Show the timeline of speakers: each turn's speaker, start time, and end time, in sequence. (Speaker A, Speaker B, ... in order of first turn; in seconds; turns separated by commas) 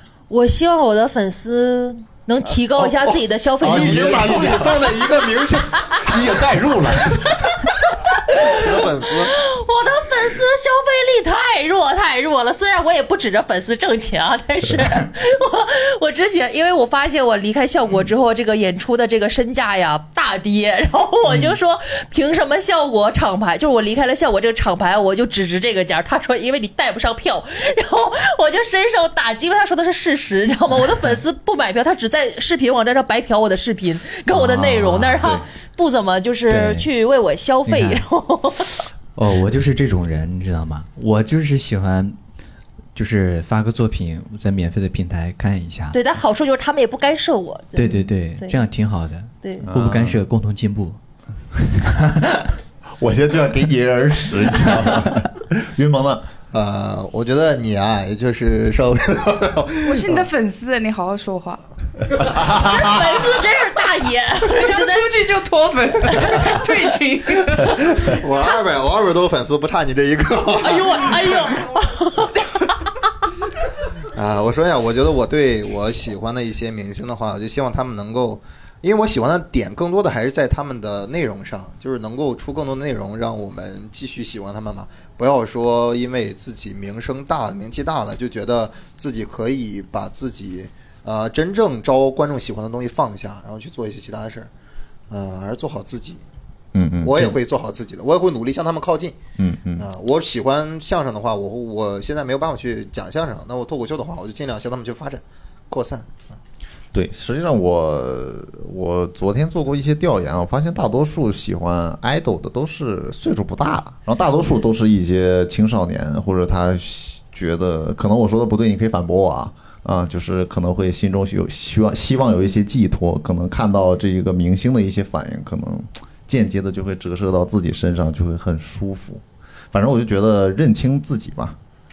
Speaker A: 0.3-4.7, Speaker B: 2.8-5.8, Speaker C: 3.6-4.8, Speaker C: 6.0-7.6, Speaker B: 8.2-9.3, Speaker A: 9.3-38.7, Speaker D: 34.3-35.5, Speaker C: 36.5-36.8, Speaker D: 37.6-38.0, Speaker D: 39.1-42.2, Speaker D: 42.9-46.0, Speaker A: 45.9-48.6, Speaker D: 47.8-51.0, Speaker C: 49.6-50.2, Speaker D: 51.7-52.4, Speaker C: 53.0-56.2, Speaker B: 56.5-60.2, Speaker E: 59.8-61.6, Speaker C: 62.2-63.2, Speaker A: 62.4-65.1, Speaker E: 64.4-67.8, Speaker A: 66.1-66.5, Speaker B: 67.9-71.4, Speaker A: 70.6-72.5, Speaker E: 72.3-72.7, Speaker B: 74.1-94.5, Speaker B: 95.1-96.2, Speaker C: 96.7-97.4, Speaker B: 97.0-99.2, Speaker C: 99.4-99.9, Speaker B: 99.8-106.4, Speaker C: 106.9-131.6